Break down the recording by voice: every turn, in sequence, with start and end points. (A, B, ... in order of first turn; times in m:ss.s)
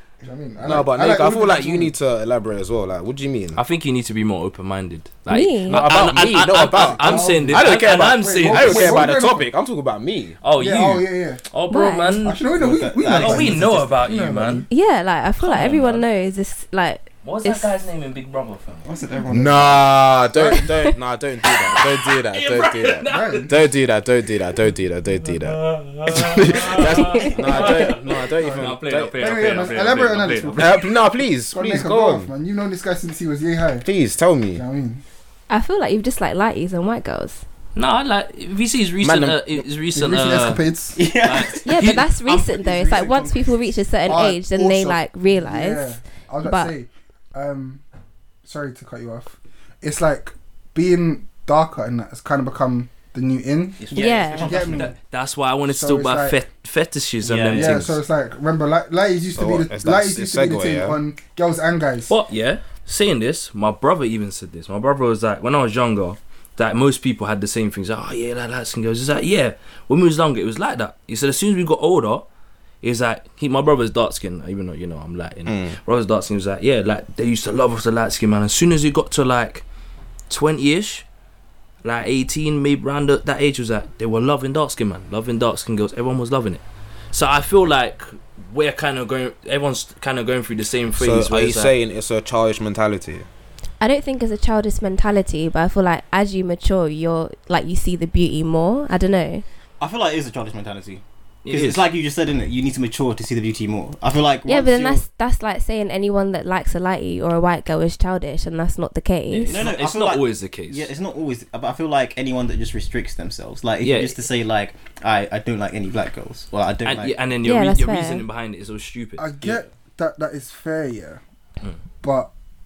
0:00.2-0:01.9 A
0:00.6-0:03.6 B
0:03.6-0:09.1 C
0:05.3-0:05.8 D
0:05.7-0:10.4 B
0:06.7-0:09.5 A
0:10.4-0:12.4 C
0:10.6-0:11.4 A
0:11.7-0:12.2 D
0:12.2-0:14.7 A
0:12.6-0:13.9 E
0:13.0-0:14.7 C
0:14.7-0:17.7 D
0:15.4-0:16.0 C
0:17.2-0:18.9 C
0:18.8-0:20.0 E
0:19.3-0:29.2 B
0:20.3-0:20.7 A
0:21.4-0:23.5 C
0:23.0-0:23.5 A
0:25.2-0:30.9 C
0:28.4-0:30.9 A
0:30.6-0:32.3 B
0:31.5-0:33.9 A
0:33.8-0:34.6 B
0:34.5-0:35.0 A
0:35.5-0:37.4 D
0:37.7-0:40.6 C
0:39.0-0:39.4 B
0:39.9-0:41.0 A
0:41.0-0:43.4 E
0:41.1-0:42.1 C
0:41.6-0:46.7 D
0:44.1-0:47.8 A
0:48.4-0:53.8 A
0:53.8-0:58.0 C
0:53.9-0:54.9 E
0:53.9-0:54.5 D
0:54.4-0:54.9 A
0:55.7-0:56.4 A
0:57.2-0:57.8 E
0:57.5-1:02.1 A
0:59.3-1:01.0 B
1:02.1-1:12.2 C
1:12.8-1:19.6 C
1:15.4-1:15.8 B
1:20.3-1:21.0 C
1:21.8-1:31.7 C
1:30.9-1:33.3 B
1:33.8-1:39.4 D
1:39.8-1:45.0 E
1:41.4-1:41.8 C
1:44.4-1:49.7 D
1:49.3-1:50.9 C
1:49.4-1:57.2 E
1:53.8-1:54.2 C
1:56.8-1:59.5 C
1:57.4-1:58.2 D
1:59.2-2:01.2 A
2:02.0-2:02.3 A